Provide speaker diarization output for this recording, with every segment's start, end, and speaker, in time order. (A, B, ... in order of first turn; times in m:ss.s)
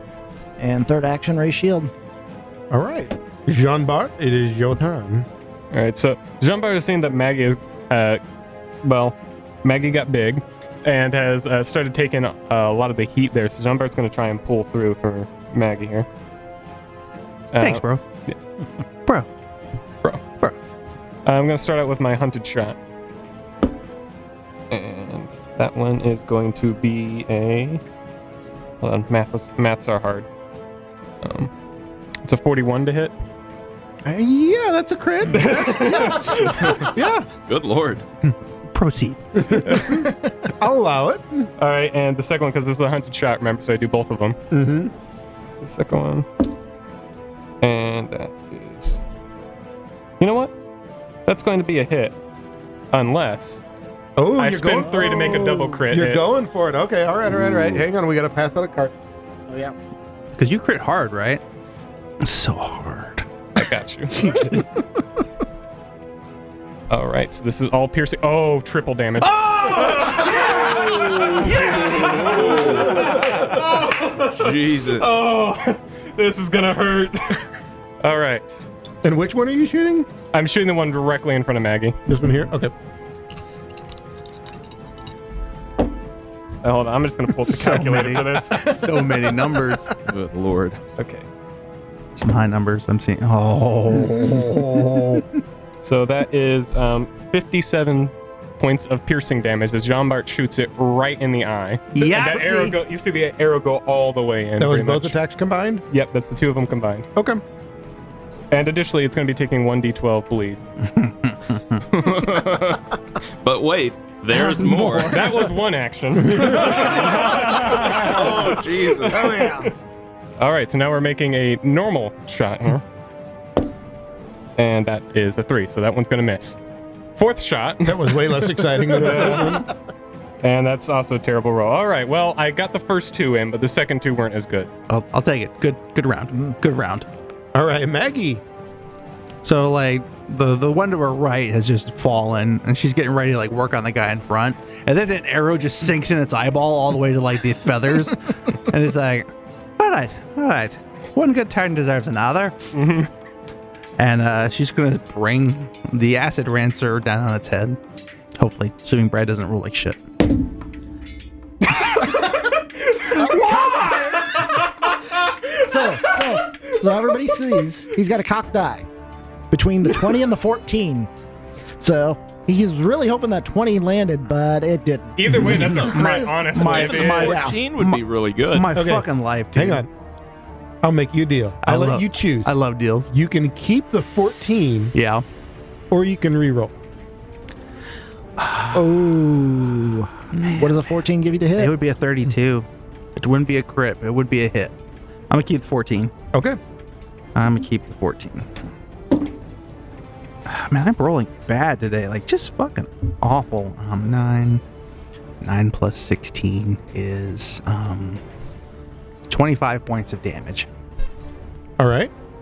0:00.6-0:01.9 A
0:02.7-0:05.3 B
0:05.7-0:08.2 C
0:08.8-0:16.1 C
0:17.5-0:18.4 C
0:17.6-0:18.0 D
0:21.2-0:22.8 C
0:24.7-0:27.8 C
0:28.8-0:30.3 C
0:31.2-0:31.5 C
0:32.2-0:33.1 C
0:34.1-0:36.2 D
0:34.2-0:37.3 B
0:35.3-0:36.9 C
0:37.5-0:38.0 E
0:38.7-0:39.6 D
0:39.4-0:41.5 B
0:41.6-0:44.4 C
0:44.5-0:44.9 B
0:45.6-0:46.3 C
0:47.6-0:49.0 C
0:50.2-0:50.5 C
0:51.3-0:52.2 C
0:52.9-0:53.6 C
0:54.2-0:58.9 B
0:54.4-0:56.2 C
0:55.0-0:55.6 A
0:59.5-0:59.8 A
1:00.4-1:01.4 D
1:02.2-1:03.3 D
1:03.6-1:04.6 C
1:06.9-1:17.4 C
1:09.2-1:13.3 D
1:12.0-1:13.1 E
1:14.2-1:15.2 E
1:18.0-1:18.4 C
1:19.0-1:20.1 B
1:20.3-1:22.0 C
1:22.1-1:22.7 B
1:26.5-1:29.2 C
1:27.5-1:29.9 D
1:30.0-1:30.8 E
1:31.0-1:31.3 C
1:32.2-1:35.2 D
1:34.2-1:35.2 B
1:35.8-1:45.2 C
1:42.0-1:42.8 D
1:44.6-1:45.8 B
1:45.9-1:47.1 C
1:47.2-1:47.4 B
1:48.5-1:50.6 C
1:50.8-1:51.8 D
1:51.9-1:55.4 E
1:55.0-1:59.7 C
1:56.5-1:59.6 E
1:59.2-1:59.7 A
2:00.4-2:02.8 C
2:04.6-2:06.6 C
2:07.2-2:09.7 C
2:07.8-2:09.7 B
2:10.4-2:14.7 C
2:14.9-2:17.1 D
2:17.6-2:18.4 B
2:19.4-2:32.6 D
2:32.7-2:33.1 C
2:34.0-2:37.8 D
2:38.4-2:40.0 D
2:43.3-2:44.2 A
2:45.6-2:48.9 A
2:49.5-2:51.1 A
2:51.8-2:55.9 A
2:55.2-2:57.5 C
2:55.8-2:59.8 D
2:56.6-2:58.7 E
2:57.2-2:57.5 A
2:58.7-2:59.9 B
3:00.8-3:02.6 B
3:01.6-3:03.1 D
3:03.1-3:04.9 B
3:04.9-3:05.2 D
3:05.9-3:06.8 B
3:08.4-3:08.7 D
3:08.7-3:11.8 A
3:10.4-3:10.7 D
3:11.6-3:14.8 D
3:15.3-3:16.1 D
3:16.3-3:16.6 B
3:17.4-3:18.5 D
3:20.5-3:24.6 D
3:25.4-3:28.2 D
3:29.3-3:30.7 D
3:31.8-3:32.1 B